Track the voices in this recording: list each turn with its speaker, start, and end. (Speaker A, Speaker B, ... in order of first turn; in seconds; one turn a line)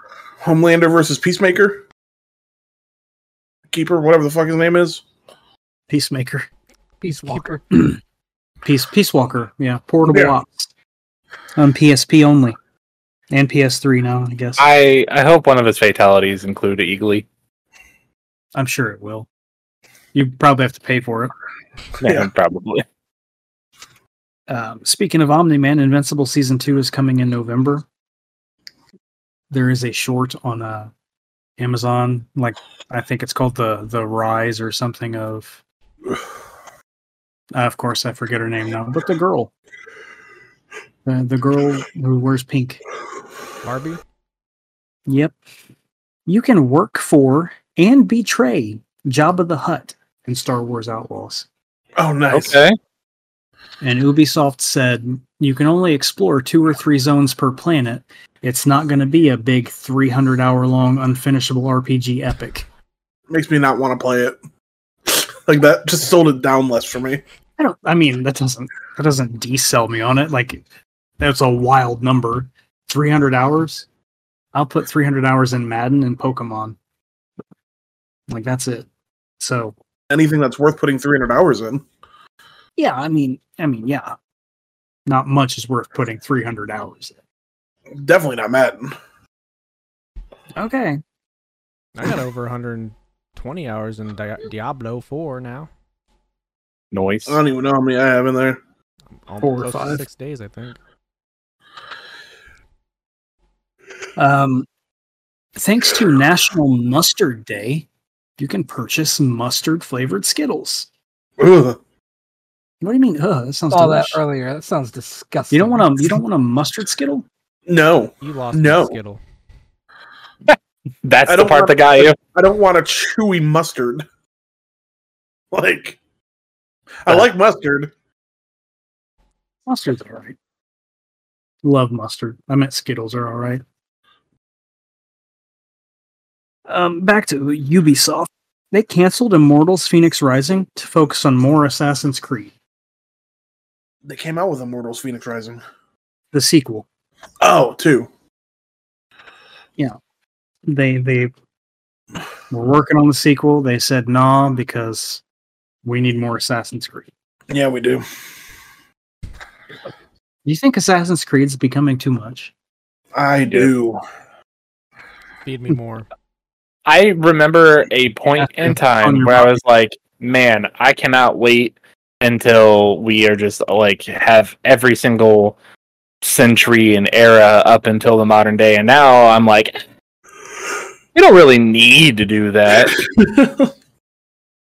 Speaker A: 0.4-1.8
Speaker A: 3.7-5.0
Speaker B: 5.9-6.5
Speaker C: 7.0-7.6
Speaker B: 7.7-8.0
Speaker B: 8.6-10.7
Speaker A: 10.1-10.3
Speaker B: 11.6-12.6
Speaker B: 13.3-14.7
Speaker D: 14.6-17.2
Speaker B: 18.6-19.3
Speaker B: 20.1-21.3
Speaker D: 22.0-22.8
Speaker B: 24.5-27.9
Speaker B: 29.5-30.9
Speaker B: 31.6-35.6
Speaker B: 37.5-39.5
Speaker B: 41.0-42.8
Speaker E: 43.6-44.0
Speaker B: 45.1-45.4
Speaker B: 46.3-51.5
Speaker A: 52.0-52.6
Speaker D: 52.3-52.8
Speaker B: 53.8-62.7
Speaker A: 63.3-64.4
Speaker A: 65.1-67.2
Speaker B: 67.6-70.6
Speaker B: 71.2-73.9
Speaker B: 74.5-76.8
Speaker B: 78.3-78.9
Speaker B: 79.4-79.8
Speaker A: 80.1-81.8
Speaker B: 82.8-84.2
Speaker B: 85.1-87.2
Speaker A: 88.0-89.0
Speaker B: 90.6-91.0
Speaker E: 91.9-95.7
Speaker D: 96.9-97.4
Speaker A: 97.3-98.6
Speaker E: 99.1-100.8
Speaker B: 99.4-100.0
Speaker B: 104.2-104.7
Speaker B: 105.6-107.9
Speaker B: 108.4-110.9
Speaker A: 111.4-111.8
Speaker B: 112.8-114.2
Speaker C: 113.7-116.2
Speaker B: 115.5-117.3
Speaker A: 117.7-119.0
Speaker E: 118.2-119.2
Speaker D: 120.5-122.2
Speaker A: 121.3-124.0
Speaker A: 125.5-126.0
Speaker A: 127.0-127.9
Speaker B: 129.7-130.4
Speaker B: 131.6-133.6
Speaker B: 136.7-142.5
Speaker A: 144.1-145.6
Speaker B: 146.3-146.9
Speaker A: 147.4-148.1
Speaker B: 150.7-151.3
Speaker B: 152.5-155.2
Speaker B: 155.8-157.1
Speaker A: 157.5-158.1
Speaker B: 160.4-162.5
Speaker A: 163.2-164.0
Speaker E: 165.4-166.1
Speaker D: 166.9-175.6
Speaker B: 168.4-169.6
Speaker D: 176.2-179.8
Speaker D: 181.2-183.0
Speaker A: 182.9-183.7